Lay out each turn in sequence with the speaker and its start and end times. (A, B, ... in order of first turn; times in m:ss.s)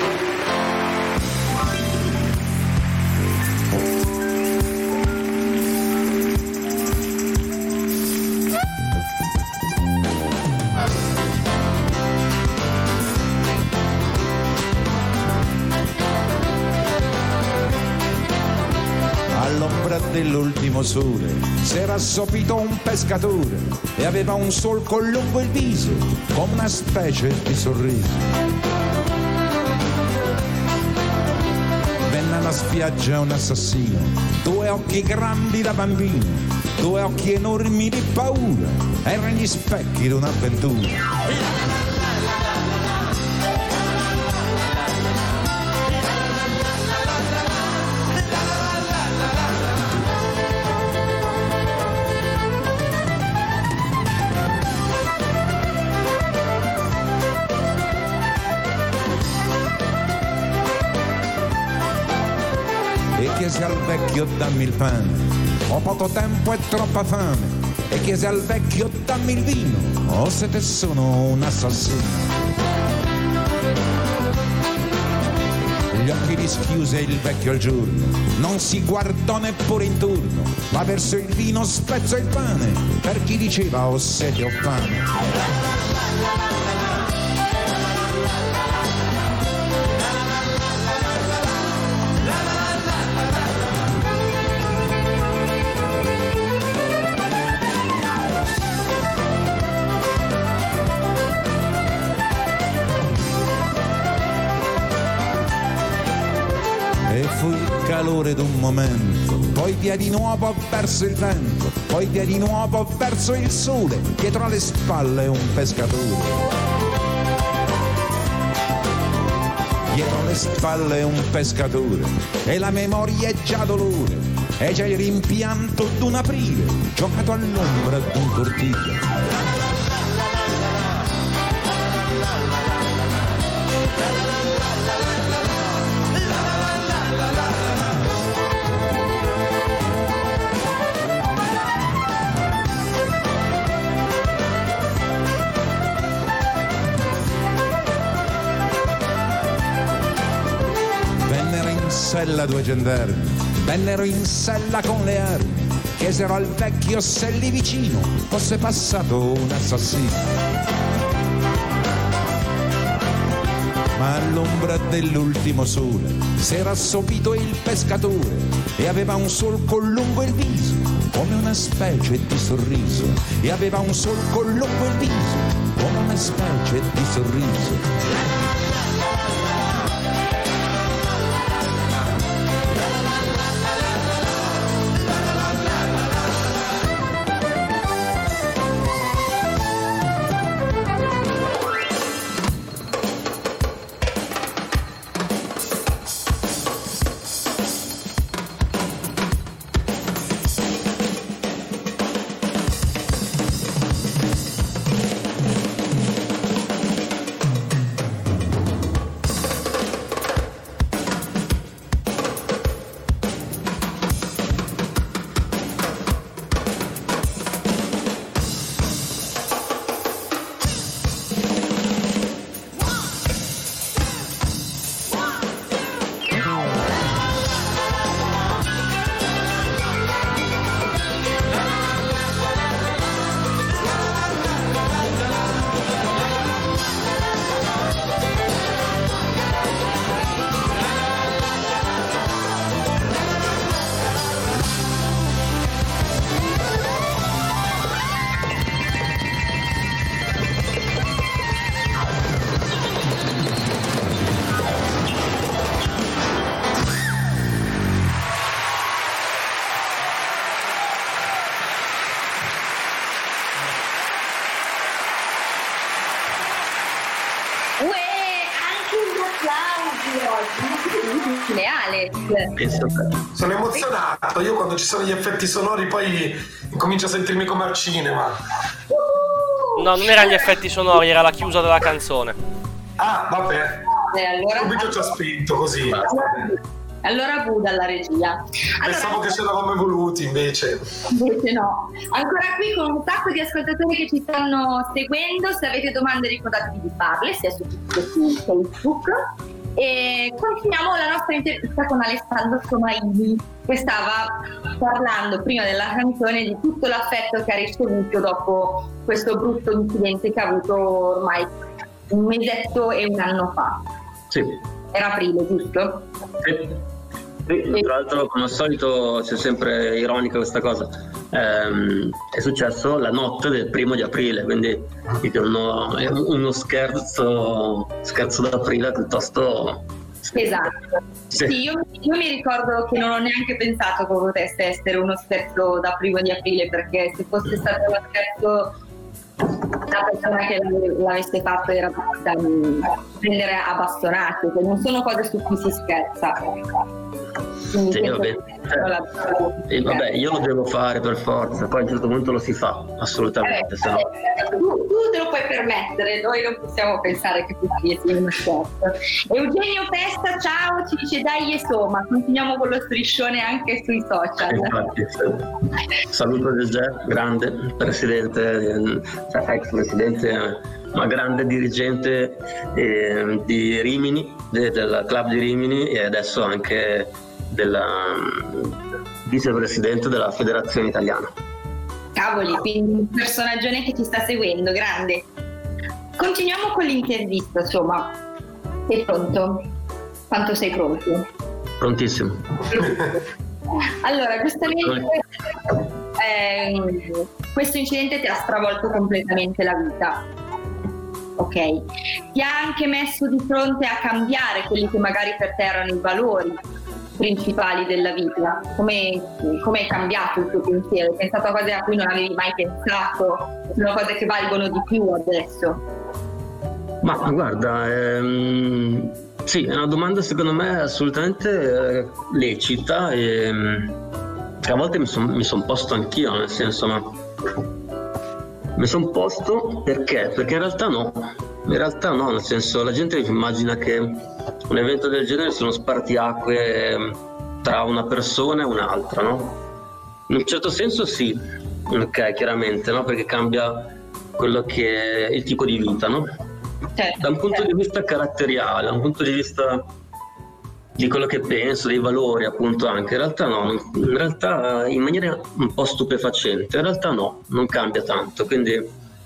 0:19.3-0:28.3 A
0:32.1-0:41.0 A
1:03.2-1:12.4 A
1:15.9-1:25.1 A
1:47.1-1:56.5 A
1:59.9-2:09.0 A
2:31.2-2:40.3 A
2:44.0-2:57.8 A
4:27.8-4:32.6 B
4:32.6-4:33.1 C
4:33.3-4:38.4 D
4:38.9-4:40.5 B
4:39.8-4:42.4 E
4:43.0-4:43.8 D
4:44.1-4:45.1 B
4:44.6-4:46.2 D
4:46.0-4:49.3 B
4:48.8-4:50.8 D
4:51.1-4:59.2 B
4:59.8-5:11.5 B
5:12.1-5:13.8 B
5:14.3-5:14.6 C
5:14.9-5:16.1 B
5:16.4-5:16.8 C
5:17.5-5:30.4 C
5:30.3-5:38.8 B
5:39.8-5:46.6 B
5:47.7-5:50.0 B
5:47.9-5:48.8 C
5:49.7-5:54.0 C
5:53.4-6:04.7 B
6:04.5-6:05.5 C
6:06.1-6:21.3 C
6:22.2-6:25.3 B
6:26.2-6:28.1 B
6:28.9-6:29.7 B
6:30.3-6:31.3 B
6:31.8-6:33.0 C
6:34.0-6:35.2 B
6:36.2-6:40.2 B
6:41.4-6:46.6 B
6:47.2-6:55.8 B
6:57.0-7:04.0 C
7:04.6-7:07.2 C
7:08.8-7:19.6 C
7:20.3-7:26.3 C
7:27.0-7:27.6 B
7:27.2-7:29.9 C
7:31.0-7:38.9 C